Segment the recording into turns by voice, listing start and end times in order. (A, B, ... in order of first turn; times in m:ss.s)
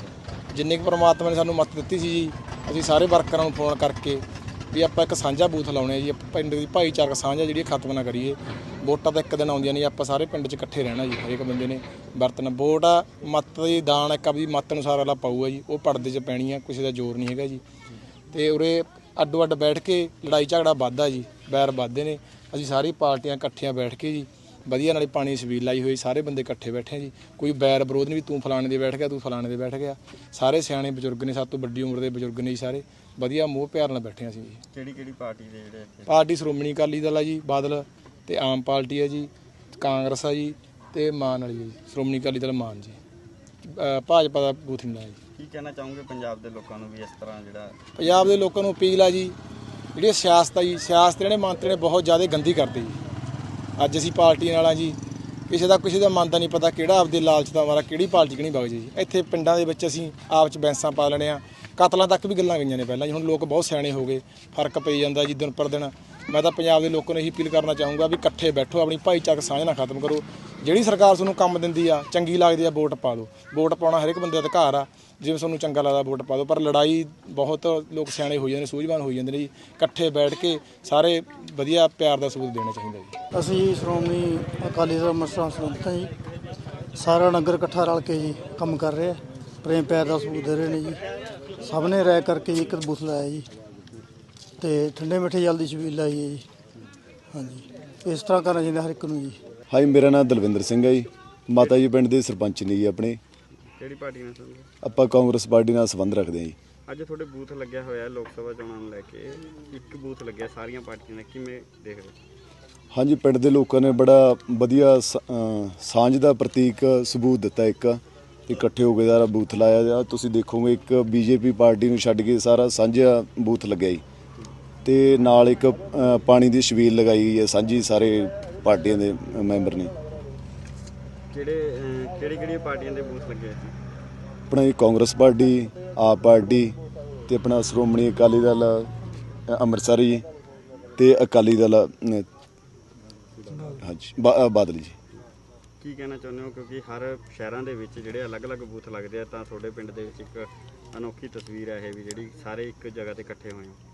0:00.5-0:17.6 A
0:18.3-0:34.6 A
0:34.7-0:36.2 B
0:36.1-0:43.0 A
0:43.6-0:45.2 A
0:45.4-0:47.8 B
0:48.0-0:49.4 A
0:50.0-0:53.0 A
0:53.8-0:55.0 A
0:55.5-1:23.2 A
1:23.3-1:26.1 C
1:27.0-1:31.0 C
1:31.6-1:33.5 C
1:34.6-1:36.4 C
1:37.3-1:39.4 C
1:39.7-1:43.2 D
1:43.8-1:44.7 B
1:44.8-1:46.6 D
1:46.9-1:52.2 B
1:52.9-2:04.0 D
2:04.8-2:09.9 D
2:11.3-2:13.7 B
2:14.5-2:16.8 D
2:17.3-2:18.9 D
2:19.5-2:20.2 D
2:21.0-2:22.3 D
2:23.6-2:25.0 D
2:25.8-2:33.8 B